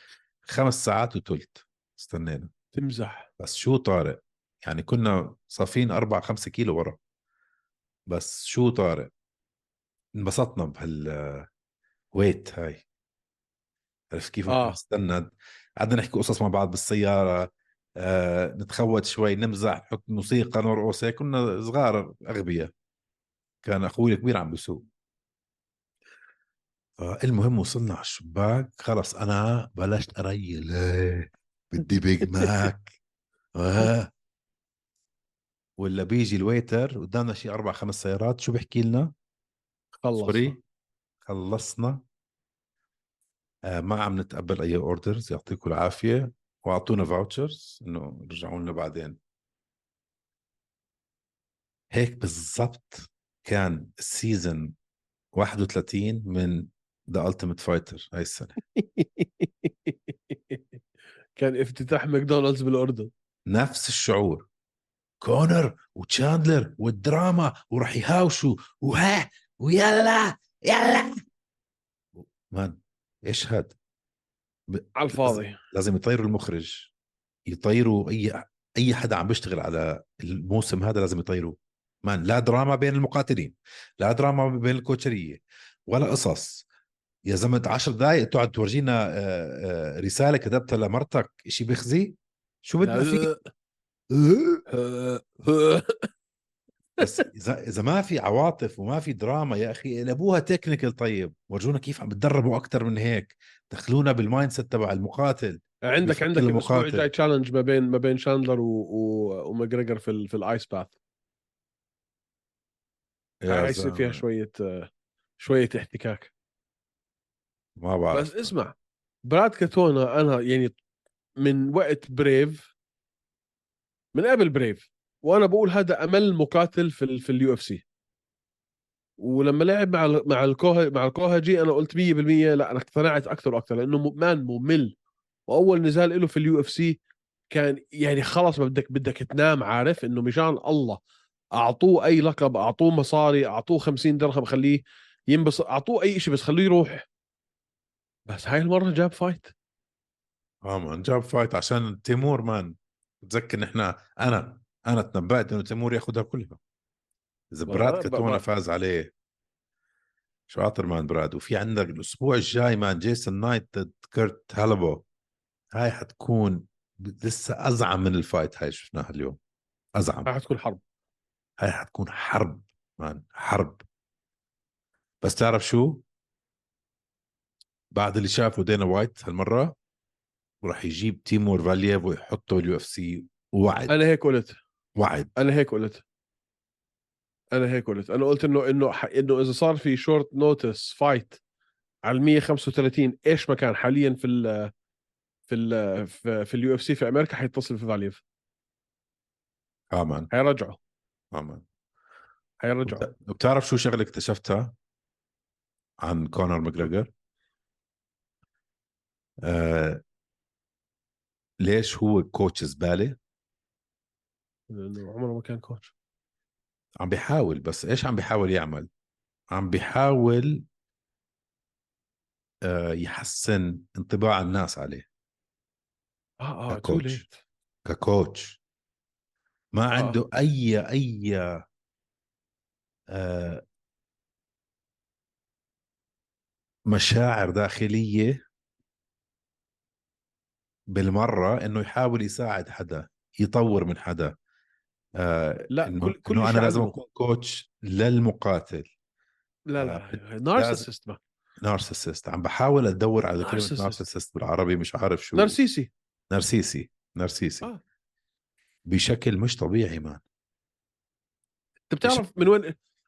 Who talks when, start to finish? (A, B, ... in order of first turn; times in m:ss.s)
0:00.5-0:02.5 A
0:02.7-0:03.3 B
0:03.4-0:07.0 A
0:08.1-0:09.1 A
0:10.2-0:11.5 A
0:12.1-0:12.8 A
0:14.1-0:22.7 A
0:14.5-0:14.8 B
0:23.6-0:24.9 A
0:27.0-0:33.0 A
0:33.6-0:34.1 A
0:35.8-0:39.1 A
0:40.0-0:40.6 B
0:40.2-0:40.6 A
0:41.2-0:42.0 A
0:43.6-0:49.2 A
0:51.9-0:54.7 A
0:55.4-0:58.6 A
0:58.8-1:00.6 B
1:01.4-1:03.1 B
1:03.5-1:04.5 A
1:05.2-1:11.2 A
1:12.2-1:13.8 A
1:14.7-1:16.9 A
1:15.0-1:15.6 B
1:17.5-1:26.7 A
1:27.3-1:33.3 A
1:32.8-1:33.4 B
1:34.1-1:34.6 A
1:34.7-1:36.1 B
1:37.0-1:47.1 A
1:45.8-1:51.0 B
1:53.4-1:54.2 A
1:53.5-1:56.3 B
1:57.8-1:58.5 A
1:58.1-2:00.8 B
2:01.4-2:02.7 B
2:04.1-2:07.8 B
2:09.2-2:15.0 B
2:15.5-2:17.0 B
2:17.5-2:21.0 B
2:21.6-2:27.1 B
2:28.3-2:29.5 B
2:30.6-2:36.6 A
2:37.5-2:39.1 A
2:37.7-2:38.4 B
2:40.5-2:45.0 A
2:45.8-2:49.4 A
2:50.0-2:50.3 A
2:50.3-2:50.8 B
2:51.6-2:53.8 A
2:55.2-2:56.0 A
2:57.9-2:59.8 A
3:00.6-3:03.9 A
3:03.9-3:04.6 B
3:05.0-3:05.3 A
3:05.4-3:06.0 B
3:07.5-3:11.4 B
3:12.1-3:14.7 B
3:15.5-3:18.2 B
3:19.9-3:20.3 A
3:20.3-3:20.8 B
3:21.3-3:21.6 A
3:22.6-3:23.1 B
3:22.9-3:24.7 A
3:26.0-3:27.1 A
3:29.4-3:30.0 A
3:31.6-3:33.2 A
3:34.7-3:35.9 B
3:37.0-3:38.9 A
3:39.5-3:40.6 A
3:42.6-3:45.1 A
3:46.4-3:47.4 B
3:46.7-3:47.2 A
3:47.8-3:48.6 A
3:49.7-3:51.6 A
3:53.1-3:53.6 A
3:56.9-3:58.4 A
4:00.9-4:04.4 A
4:05.2-4:08.9 A
4:05.7-4:07.0 B
4:09.7-4:11.2 B
4:09.8-4:10.9 A
4:11.6-4:15.6 A
4:13.4-4:14.0 B
4:15.3-4:15.9 B
4:16.3-4:17.7 A
4:18.9-4:20.2 A
4:21.9-4:22.8 B